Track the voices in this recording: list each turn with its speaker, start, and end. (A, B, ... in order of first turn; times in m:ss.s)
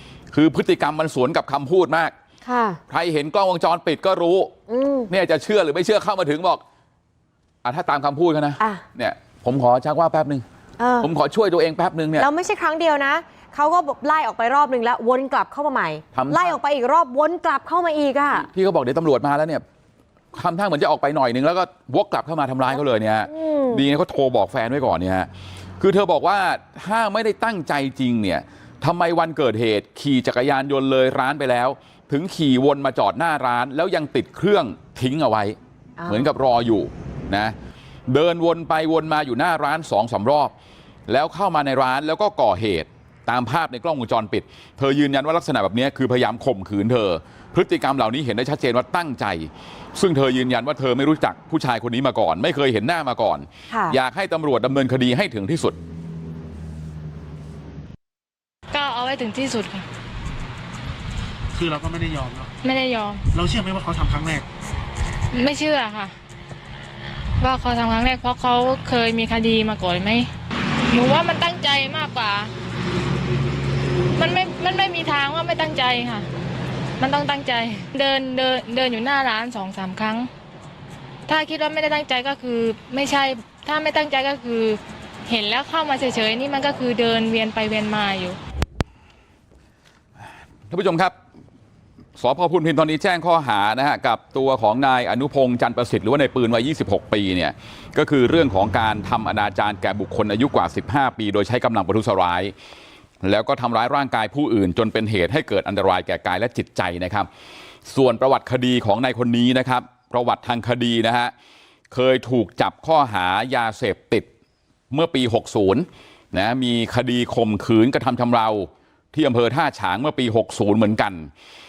0:00.3-0:02.1 A
0:02.4-0:02.8 B
0:02.9-0:04.5 A
0:04.7-0:05.1 B
0:05.1-0:06.6 A
0:07.6-0:10.4 A
0:10.8-0:11.1 B
0:11.0-0:12.3 A
0:12.2-0:18.5 B
0:16.1-0:16.6 A
0:18.5-0:19.6 A
0:20.3-0:25.3 A
0:23.3-0:23.8 B
0:25.8-0:37.6 A
0:36.0-0:36.3 B
0:38.1-0:40.5 A
0:41.1-0:55.8 A
0:53.7-0:54.0 B
0:58.7-0:59.8 C
1:01.5-1:02.5 D
1:02.6-1:03.2 C
1:03.3-1:04.5 D
1:05.3-1:06.2 C
1:07.4-1:10.3 C
1:10.9-1:12.5 C
1:14.2-1:16.3 C
1:17.0-1:20.3 C
1:21.3-1:28.4 C
1:30.7-1:31.1 A
1:32.2-1:42.5 A
1:43.2-1:47.3 A
1:47.9-1:51.3 A
1:51.9-1:54.3 A
1:54.9-2:01.3 A